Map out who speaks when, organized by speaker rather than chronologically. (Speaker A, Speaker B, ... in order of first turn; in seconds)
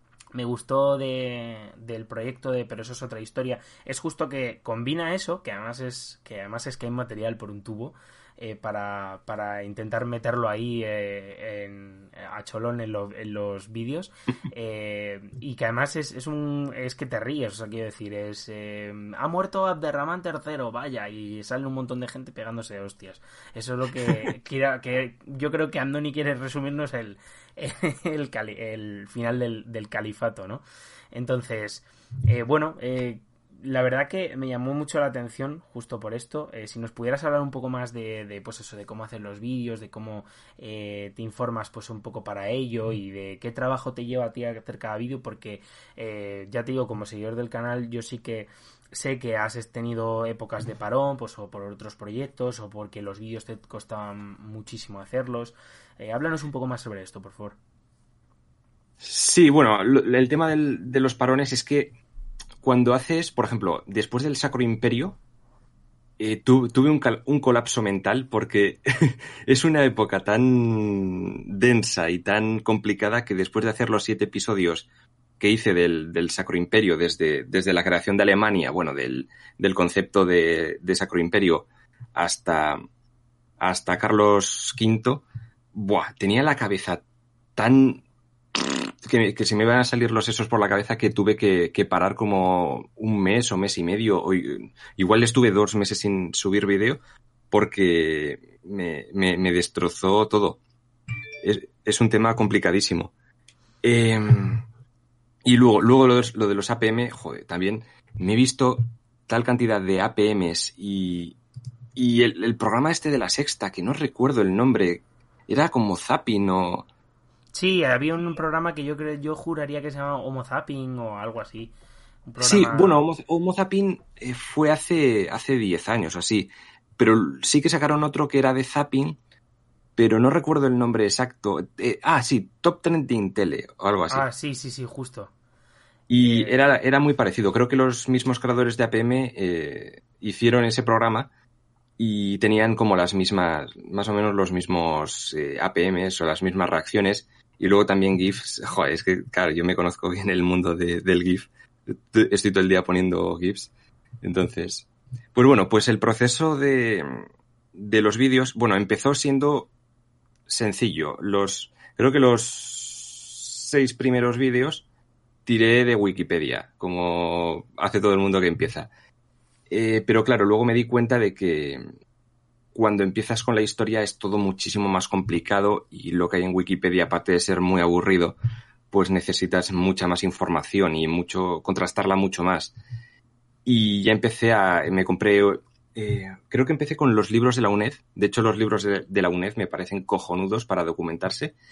Speaker A: 0.3-57.6, 117.5-121.7, 122.3-123.0, 134.1-135.3, 136.2-136.6
Speaker B: 59.0-62.0, 62.6-65.2, 66.2-74.9, 75.4-82.8, 83.6-87.0, 87.6-97.0, 97.5-100.6, 101.4-103.1, 103.8-104.6, 105.5-111.4, 112.0-116.8, 122.4-129.2, 130.0-134.2, 136.1-141.3, 142.0-153.7, 154.2-159.7, 160.5-164.8, 165.5-168.9, 169.7-171.9, 172.7-178.4, 178.9-182.7, 183.7-191.6